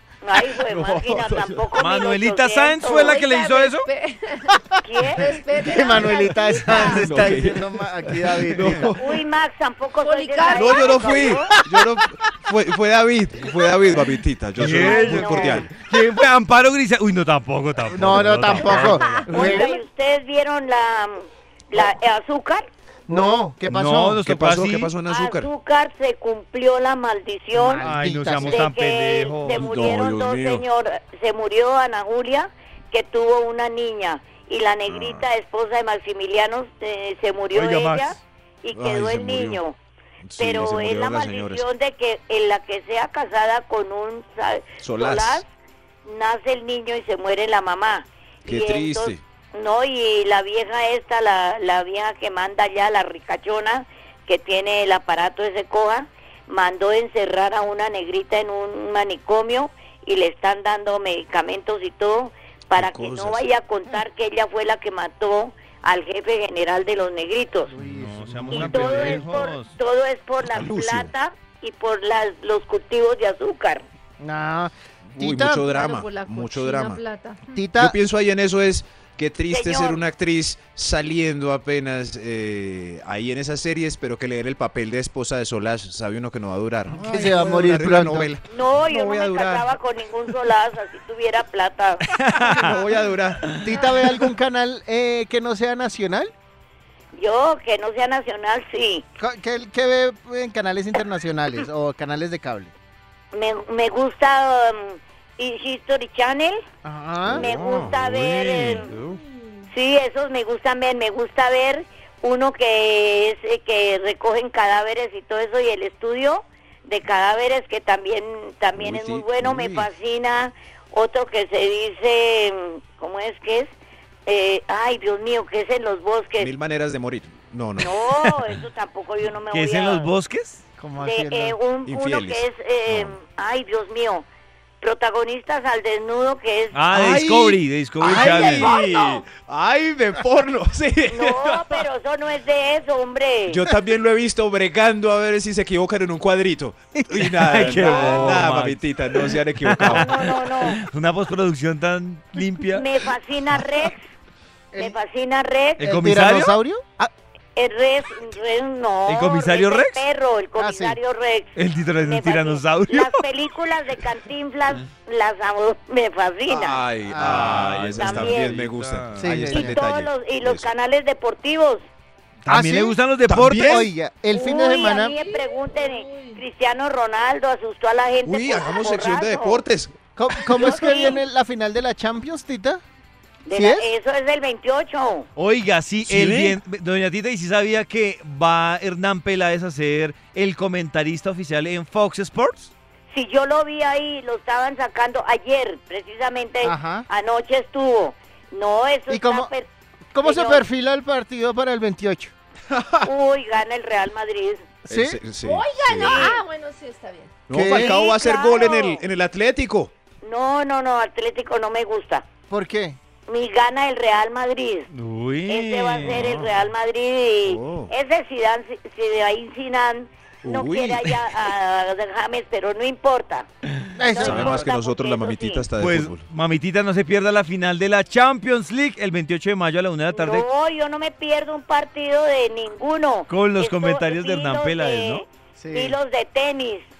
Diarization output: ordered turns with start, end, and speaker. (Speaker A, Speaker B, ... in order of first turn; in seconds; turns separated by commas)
Speaker A: 0.2-3.2, Speaker B: 0.6-1.6, Speaker C: 1.8-3.9, Speaker D: 2.8-7.3, Speaker A: 4.8-5.3, Speaker E: 5.6-9.0, Speaker C: 6.8-7.3, Speaker B: 6.9-7.6, Speaker C: 8.5-8.9, Speaker B: 8.5-9.0, Speaker A: 9.0-11.5, Speaker D: 10.0-11.3, Speaker B: 10.5-15.7, Speaker C: 14.6-19.2, Speaker A: 14.8-15.7, Speaker E: 17.9-19.8, Speaker B: 18.0-19.6, Speaker D: 18.6-19.8, Speaker A: 19.3-22.7, Speaker E: 23.1-24.2, Speaker C: 23.7-24.9, Speaker B: 24.2-25.5, Speaker A: 25.0-39.8, Speaker E: 27.5-28.7, Speaker C: 27.8-29.6, Speaker B: 29.4-30.6, Speaker B: 34.9-35.3, Speaker C: 37.5-38.2, Speaker B: 38.7-39.6, Speaker B: 40.3-41.6, Speaker A: 40.4-45.5, Speaker B: 44.8-45.4, Speaker A: 46.0-67.7, Speaker B: 48.5-49.2, Speaker B: 62.8-63.4, Speaker E: 67.7-69.2, Speaker C: 67.8-69.8, Speaker B: 68.5-69.5, Speaker A: 68.5-73.9, Speaker B: 70.4-71.1, Speaker E: 74.2-75.7, Speaker B: 75.1-77.0, Speaker D: 75.6-77.6, Speaker E: 77.5-78.0, Speaker B: 77.8-89.7, Speaker A: 79.5-80.0, Speaker E: 86.9-88.4, Speaker A: 88.5-92.0, Speaker C: 92.1-92.8, Speaker B: 92.5-93.5, Speaker E: 93.6-96.3, Speaker A: 97.1-99.0, Speaker E: 99.2-102.7, Speaker A: 103.3-106.6, Speaker E: 106.8-107.8, Speaker B: 107.2-109.2, Speaker A: 107.3-109.0, Speaker A: 109.7-123.7, Speaker B: 118.7-119.9, Speaker A: 124.2-126.5, Speaker B: 126.4-127.9, Speaker A: 127.8-130.1, Speaker C: 129.5-130.6, Speaker E: 130.8-131.6, Speaker A: 131.0-134.2, Speaker B: 131.8-133.2, Speaker A: 134.8-136.8, Speaker C: 136.7-138.7, Speaker B: 136.9-141.8, Speaker A: 138.1-139.2, Speaker A: 141.1-143.7, Speaker B: 143.5-150.3, Speaker E: 147.1-147.6, Speaker C: 147.4-152.9, Speaker A: 147.8-148.4, Speaker A: 149.9-150.8, Speaker A: 152.7-154.0, Speaker E: 154.7-155.0, Speaker A: 154.8-155.9, Speaker C: 155.8-156.5, Speaker E: 155.8-157.1, Speaker A: 157.6-166.9, Speaker C: 159.1-160.0, Speaker E: 160.6-161.0, Speaker C: 161.6-163.2, Speaker B: 166.5-170.7, Speaker E: 167.0-167.7, Speaker C: 167.2-169.3, Speaker A: 167.8-168.6, Speaker E: 169.1-169.8, Speaker A: 169.5-171.8, Speaker C: 172.4-173.8, Speaker E: 172.4-172.9, Speaker B: 173.3-173.9, Speaker E: 173.5-175.1, Speaker A: 174.3-179.6, Speaker D: 175.1-176.4, Speaker B: 178.2-179.9, Speaker E: 180.2-182.8, Speaker D: 180.4-181.2, Speaker A: 180.6-181.2, Speaker A: 183.4-185.3, Speaker E: 183.5-183.9, Speaker C: 185.4-192.7, Speaker B: 186.0-186.6, Speaker A: 193.1-199.7, Speaker E: 196.6-197.1, Speaker E: 199.1-199.5, Speaker E: 200.1-202.3, Speaker A: 200.2-200.7, Speaker B: 202.7-203.1, Speaker A: 203.0-204.6, Speaker E: 204.8-205.2, Speaker B: 204.9-206.4, Speaker D: 205.4-207.3, Speaker A: 206.0-206.4, Speaker B: 207.5-209.9, Speaker E: 207.5-207.9, Speaker A: 207.7-209.1, Speaker A: 210.2-212.2, Speaker E: 212.5-213.0, Speaker A: 213.3-214.9, Speaker C: 214.9-216.4, Speaker A: 215.5-223.5, Speaker B: 216.0-216.5, Speaker B: 217.4-217.9, Speaker B: 220.4-221.2, Speaker E: 223.9-224.7, Speaker A: 224.1-225.7, Speaker B: 224.2-226.2, Speaker C: 225.8-230.4, Speaker A: 230.1-236.9, Speaker C: 233.3-235.2, Speaker E: 235.6-236.0